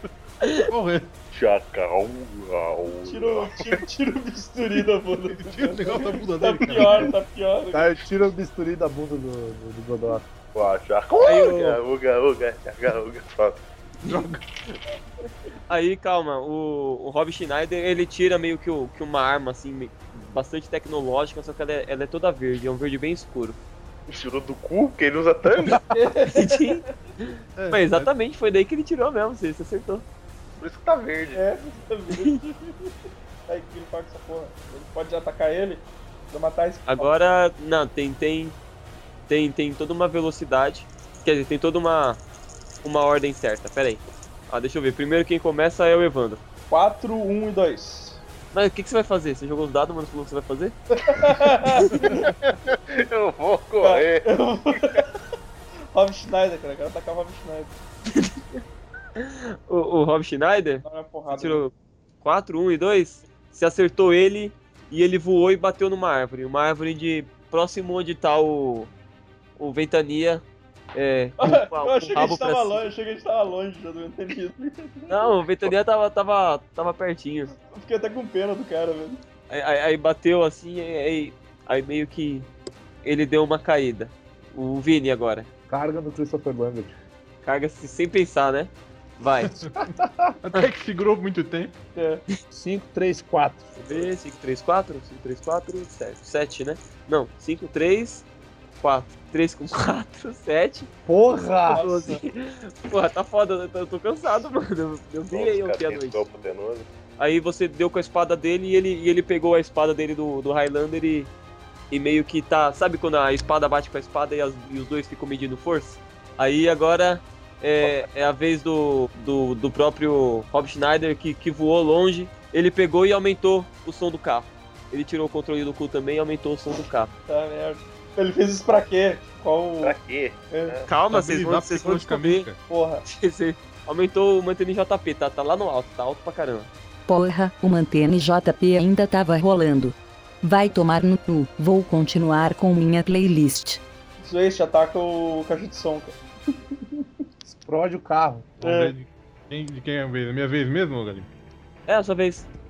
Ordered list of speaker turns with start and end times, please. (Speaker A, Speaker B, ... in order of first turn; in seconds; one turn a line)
Speaker A: 0.4-0.7
Speaker B: 0.7-1.1
Speaker C: 1.3-3.8
Speaker D: 3.0-7.9
Speaker B: 5.3-7.1
Speaker E: 7.7-10.2
Speaker C: 10.5-13.6
Speaker A: 11.2-11.8
Speaker A: 14.1-14.8
Speaker B: 14.1-14.4
Speaker A: 15.7-23.6
Speaker C: 24.1-25.9
Speaker D: 25.9-26.9
Speaker A: 26.3-30.1
Speaker B: 27.6-28.1
Speaker C: 30.6-31.4
Speaker D: 31.3-32.9
Speaker D: 33.5-37.1
Speaker A: 36.9-38.6
Speaker A: 39.3-42.2
Speaker A: 42.8-46.4
Speaker D: 46.7-48.2
Speaker A: 48.5-50.8
Speaker D: 51.0-52.3
Speaker A: 51.7-52.1
Speaker C: 52.0-55.0
Speaker D: 53.8-55.1
Speaker D: 55.9-57.8
Speaker A: 58.1-58.6
Speaker A: 59.2-68.9
Speaker D: 60.8-61.7
Speaker A: 69.6-72.9
Speaker D: 71.4-75.3
Speaker A: 75.1-77.5
Speaker D: 77.6-79.2
Speaker A: 79.5-82.5
Speaker A: 83.0-85.5
Speaker E: 85.7-87.0
Speaker A: 87.4-89.5
Speaker E: 89.8-90.4
Speaker B: 90.4-91.7
Speaker D: 92.0-92.2
Speaker E: 92.5-93.8
Speaker A: 93.8-98.3
Speaker A: 98.8-100.9
Speaker E: 101.1-102.0
Speaker D: 101.7-102.2
Speaker A: 101.7-106.2
Speaker C: 105.3-106.9
Speaker A: 107.2-111.3
Speaker A: 111.9-127.1
Speaker D: 127.3-130.0
Speaker C: 129.8-130.9
Speaker D: 130.5-130.8
Speaker A: 130.9-132.5
Speaker B: 131.1-132.6
Speaker D: 132.7-133.1
Speaker A: 133.1-136.7
Speaker F: 137.1-143.8
Speaker D: 144.2-146.2
Speaker E: 147.4-148.6
Speaker B: 148.6-151.3
Speaker D: 148.6-148.9
Speaker A: 151.9-152.5